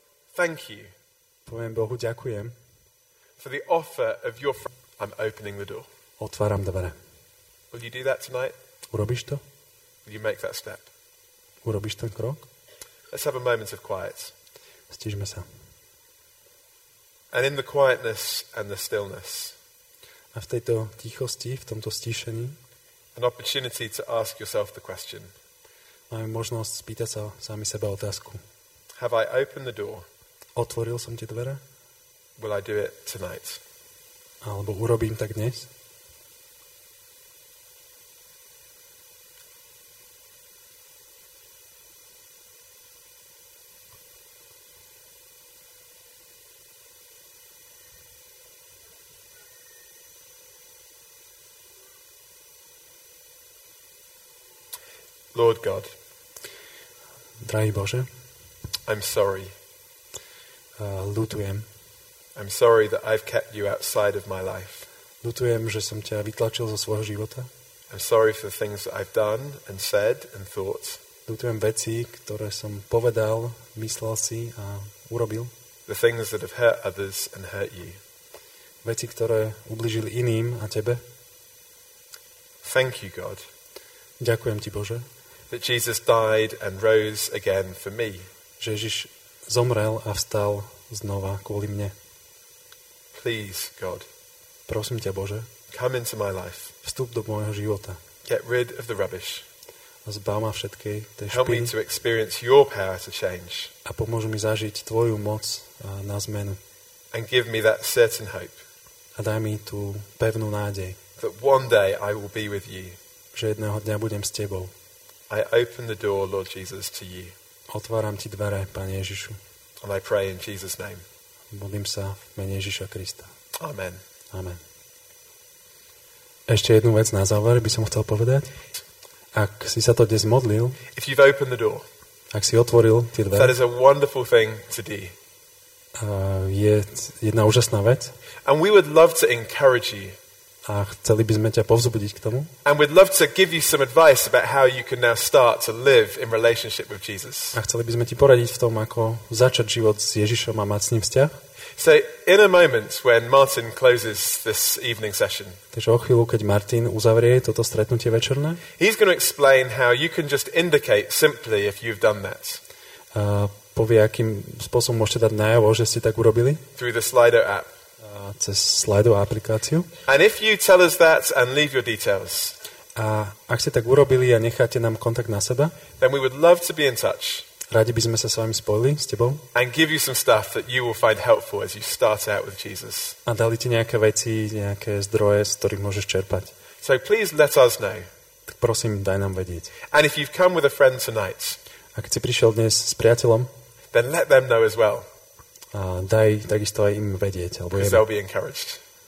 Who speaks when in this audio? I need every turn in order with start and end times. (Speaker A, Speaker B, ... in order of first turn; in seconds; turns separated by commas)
Speaker A: 0.3-0.9, Speaker B: 1.4-2.5, Speaker A: 3.4-5.9, Speaker B: 6.2-7.0, Speaker A: 7.7-8.6, Speaker B: 8.9-9.4, Speaker A: 10.0-10.9, Speaker B: 11.6-12.5, Speaker A: 13.1-14.3, Speaker B: 14.9-15.4, Speaker A: 17.3-19.6, Speaker B: 20.3-22.6, Speaker A: 23.1-25.3, Speaker B: 26.1-28.4, Speaker A: 29.0-30.1, Speaker B: 30.6-31.6, Speaker A: 32.4-33.6, Speaker B: 34.4-35.7, Speaker A: 55.3-55.9, Speaker B: 57.4-58.1, Speaker A: 58.9-59.5, Speaker B: 60.8-61.7, Speaker A: 62.4-64.9, Speaker B: 65.2-67.5, Speaker A: 67.9-71.0, Speaker B: 71.3-75.5, Speaker A: 75.9-78.0, Speaker B: 78.8-81.0, Speaker A: 82.6-83.4, Speaker B: 84.2-85.0, Speaker A: 85.5-88.3, Speaker B: 88.6-91.9, Speaker A: 93.1-94.1, Speaker B: 94.7-95.5, Speaker A: 95.7-96.7, Speaker B: 96.8-98.0, Speaker A: 98.2-99.5, Speaker B: 100.0-101.7, Speaker A: 101.3-103.7, Speaker B: 103.8-106.6, Speaker A: 107.1-108.7, Speaker B: 109.2-111.0, Speaker A: 111.2-113.0, Speaker B: 113.3-114.7, Speaker A: 115.3-117.3, Speaker B: 117.7-119.4, Speaker A: 119.8-121.0, Speaker B: 121.5-123.3, Speaker A: 123.6-124.0, Speaker B: 124.3-124.6, Speaker B: 126.5-128.5, Speaker B: 129.3-130.8, Speaker A: 130.9-131.8, Speaker B: 132.3-133.6, Speaker A: 133.3-135.1, Speaker B: 135.9-138.1, Speaker A: 138.4-140.2, Speaker B: 140.7-142.5, Speaker A: 142.6-147.6, Speaker B: 147.5-151.4, Speaker A: 151.8-155.6, Speaker B: 155.7-158.6, Speaker A: 158.8-162.6, Speaker B: 163.1-166.6, Speaker A: 166.7-167.7, Speaker B: 168.0-169.9, Speaker A: 170.1-172.6, Speaker B: 172.9-175.8, Speaker A: 176.0-177.5, Speaker B: 177.7-179.4, Speaker A: 179.5-183.2, Speaker B: 183.2-186.5, Speaker A: 186.8-188.1, Speaker B: 188.5-189.7, Speaker A: 189.9-191.6, Speaker B: 191.9-193.5, Speaker A: 193.9-195.1, Speaker B: 195.7-198.1, Speaker A: 197.7-198.8